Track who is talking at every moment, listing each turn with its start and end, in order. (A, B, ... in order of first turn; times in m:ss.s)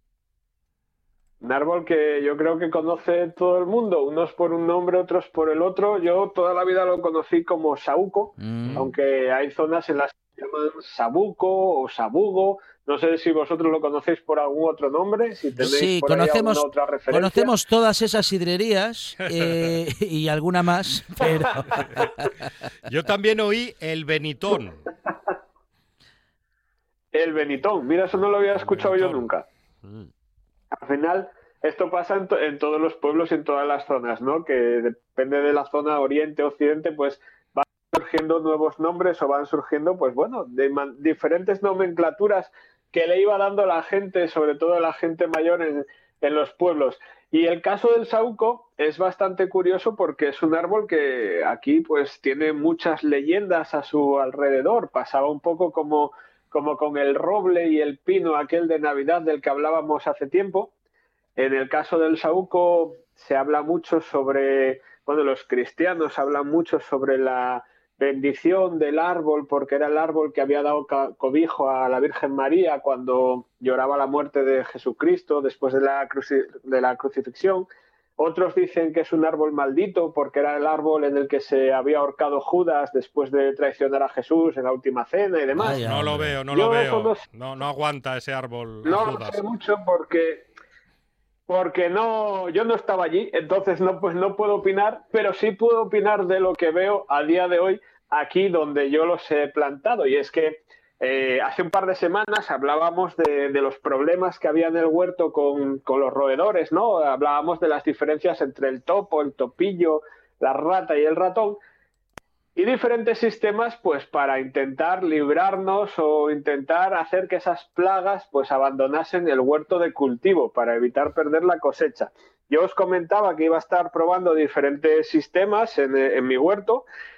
0:01.4-0:17.5 A
0:08.4-0:08.9 B
0:15.6-0:22.3 B
0:22.9-0:24.8 C
0:27.1-0:29.4 A
0:28.6-0:29.3 C
0:30.7-1:00.7 A
1:01.4-1:25.8 A
1:25.6-1:26.4 B
1:25.6-1:29.4 C
1:26.5-1:27.2 A
1:28.8-1:30.5 A
1:31.5-1:51.6 A
1:52.6-2:06.8 A